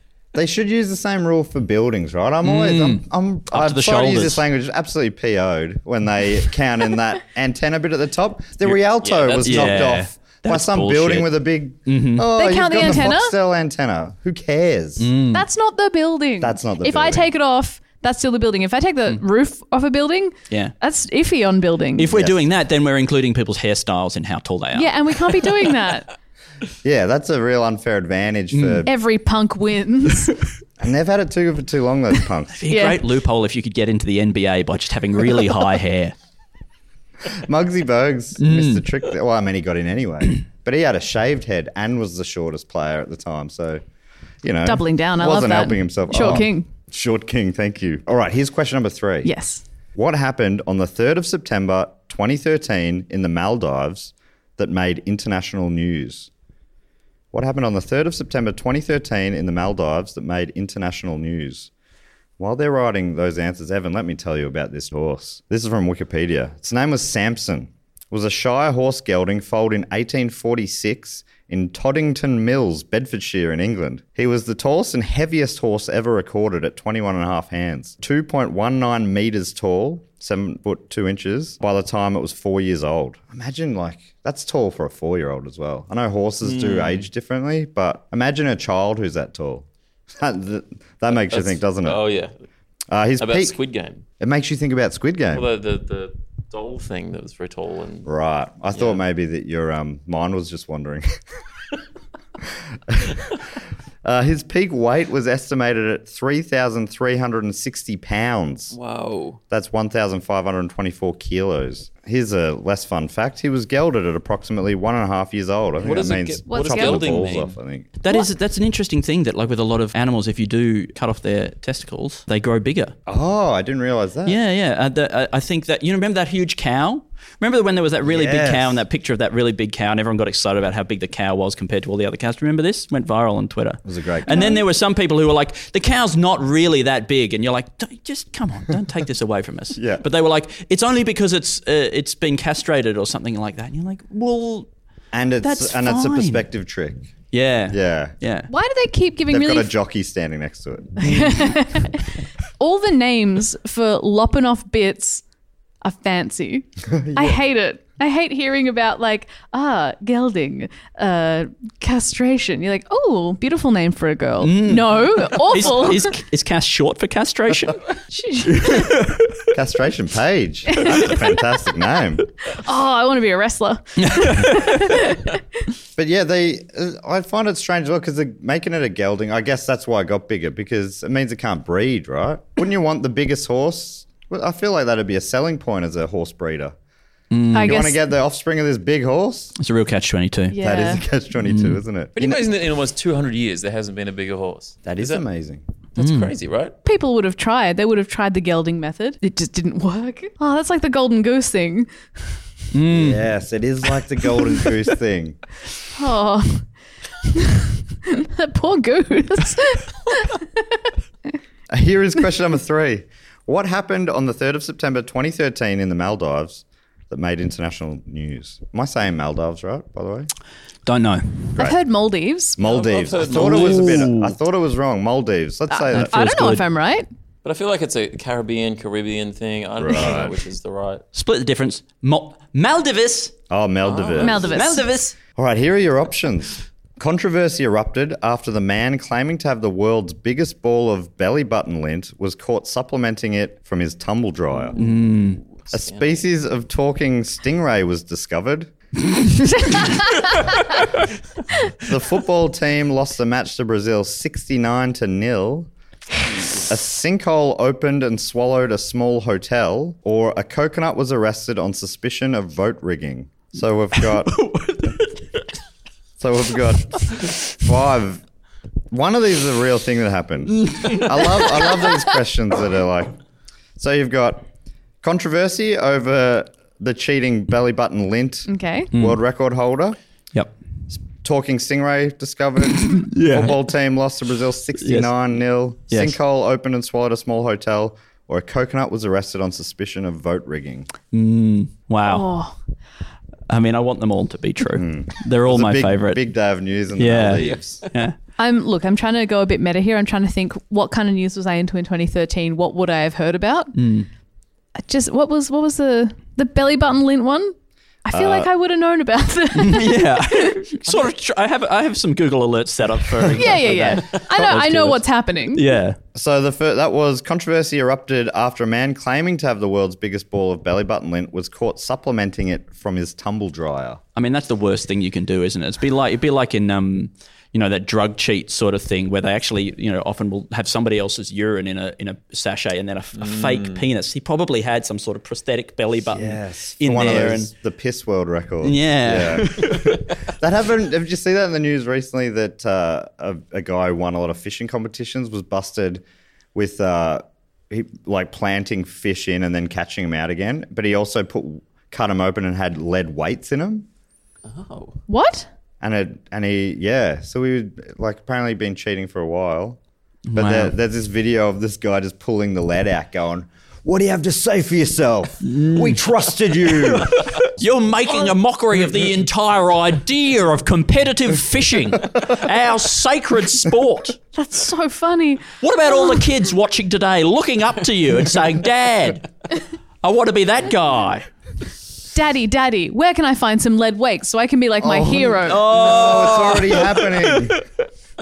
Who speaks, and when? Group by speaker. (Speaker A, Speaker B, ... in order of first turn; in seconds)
Speaker A: 0.3-15.1, 16.4-17.3, 22.1-22.5, 26.8-28.9, 30.8-32.7, 37.3-43.8, 44.4-49.3, 49.9-56.3, 57.3-61.7, 62.4-89.7, 90.2-92.0, 92.9-93.5, 94.2-95.5, 98.0-101.2, 102.9-103.2, 104.0-108.7, 109.5-117.9, 123.1-124.4, 128.0-128.8, 133.8-134.5, 139.8-140.0, 145.1-147.1, 147.7-148.2, 149.3-151.1, 156.9-157.4, 169.5-172.2, 175.9-186.7, 187.5-189.5, 190.6-192.5, 194.8-195.6, 202.9-205.4, 211.7-220.3, 221.6-221.8, 222.6-226.2, 229.8-230.4, 233.5-234.5, 235.3-244.8, 245.7-248.7, 251.8-255.7, 256.6-264.9, 266.2-268.2, 268.9-273.1, 273.8-274.4, 275.0-280.0, 280.9-290.9, 294.7-297.8, 308.1-308.5, 316.1-324.0, 336.1-346.0, 346.5-353.9, 355.8-359.8, 360.3-367.3, 384.8-387.6
Speaker B: 2.4-4.4, 9.4-12.3, 15.0-15.4, 22.0-25.0, 28.5-28.9, 32.5-36.1, 38.4-38.8, 118.0-123.0, 124.2-144.7, 145.4-146.4, 147.3-148.5, 164.4-167.8, 168.5-169.4, 174.0-175.0, 187.3-187.8, 189.6-190.6, 191.4-191.8, 196.0-196.3, 202.7-203.2, 220.8-221.5, 223.2-224.3, 225.9-226.6, 231.1-233.3, 234.3-235.1, 244.8-245.4, 264.0-265.4, 270.6-271.4, 278.9-279.2, 282.9-283.6, 284.8-285.1, 285.9-286.2, 291.1-292.3, 293.5-296.2, 296.9-298.1, 303.7-304.1, 309.6-316.0, 324.1-337.5, 338.6-340.0, 360.3-360.7, 365.4-366.0, 366.6-374.2, 375.6-379.2, 380.0-381.3, 385.4-387.6
Speaker C: 9.0-9.9, 86.4-87.0, 91.1-92.3, 93.2-94.0, 95.3-98.1, 98.7-99.0, 108.7-109.4, 115.8-117.5, 192.1-195.2, 195.9-196.7, 222.6-224.1, 227.4-231.0, 233.8-234.4, 244.6-246.2, 297.4-297.9, 333.1-333.8, 354.4-355.0
Speaker D: 12.3-13.3, 15.3-22.1, 24.7-26.1, 28.8-30.4, 32.7-33.0, 44.6-46.7, 49.2-49.6, 116.5-117.2, 134.3-134.6, 148.5-149.7, 151.0-152.1, 152.6-155.2, 155.8-166.1, 168.1-168.9, 170.7-171.2, 172.5-175.4, 187.5-188.0, 190.5-191.0, 196.8-201.9, 205.9-206.7, 207.2-210.8, 221.6-222.6, 225.7-227.1, 234.2-234.9, 249.8-250.3, 278.5-278.9, 292.0-292.6, 298.4-303.7, 304.8-310.6, 313.4-315.6, 355.1-355.5, 374.3-376.2, 382.1-385.6